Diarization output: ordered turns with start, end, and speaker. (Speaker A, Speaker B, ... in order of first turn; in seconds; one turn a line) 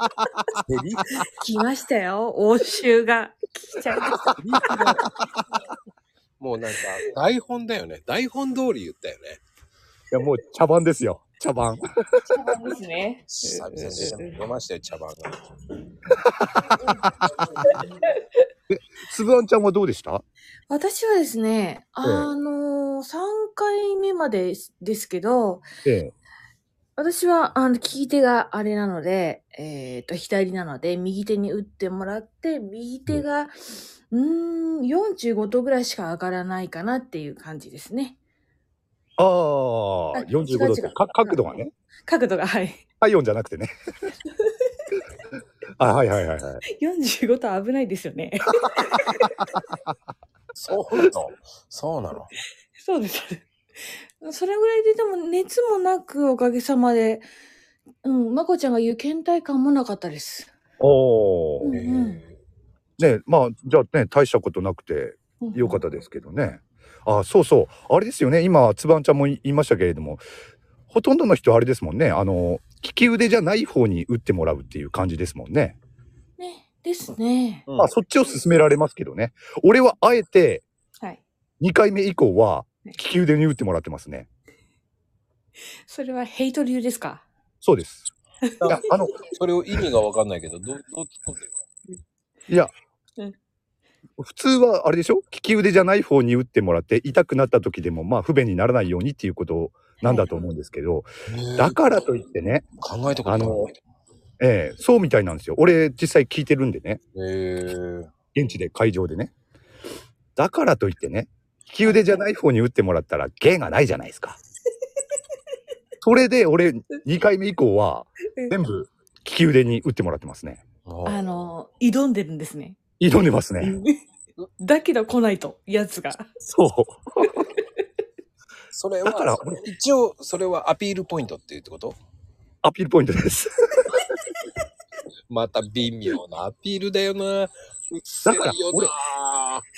Speaker A: 0.2-0.5
Speaker B: 0.7-1.2
Speaker C: 1.2-4.9
Speaker B: 4.4-5.0
Speaker B: 6.4-9.4
Speaker A: 10.1-12.2
Speaker C: 12.3-14.3
Speaker B: 13.3-15.5
Speaker A: 16.2-17.1
Speaker C: 17.6-18.1
Speaker A: 18.7-20.2
Speaker C: 20.7-25.7
Speaker A: 22.0-22.3
Speaker A: 25.9-26.1
Speaker C: 27.0-38.2
Speaker A: 39.2-41.7
Speaker C: 40.1-42.8
Speaker A: 43.0-43.7
Speaker A: 45.8-46.6
Speaker C: 46.7-49.5
Speaker B: 50.5-52.3
Speaker C: 52.8-57.3
Speaker C: 58.0-60.5
Speaker A: 60.8-61.7
Speaker C: 61.6-62.2
Speaker B: 61.7-62.4
Speaker A: 63.0-70.2
Speaker C: 65.4-65.8
Speaker A: 70.9-75.8
Speaker C: 76.4-77.7
Speaker A: 77.8-80.7
Speaker A: 81.6-84.3
Speaker C: 85.8-87.3
Speaker A: 87.6-88.0
Speaker B: 88.6-91.5
Speaker A: 88.6-89.2
Speaker A: 94.2-102.7
Speaker C: 100.0-100.4
Speaker B: 101.3-101.8
Speaker B: 102.8-103.8
Speaker A: 103.3-103.7
Speaker A: 104.4-107.0
Speaker B: 107.2-108.1
Speaker A: 108.3-109.3
Speaker A: 110.4-114.4
Speaker C: 111.8-112.2
Speaker A: 116.0-120.6
Speaker B: 120.9-121.2
Speaker C: 121.0-122.8
Speaker A: 123.0-123.8
Speaker C: 123.6-124.0
Speaker C: 124.6-126.3
Speaker A: 126.4-127.0
Speaker B: 128.7-132.0
Speaker A: 129.1-129.6
Speaker A: 132.6-133.9
Speaker B: 135.3-139.6
Speaker A: 138.2-138.9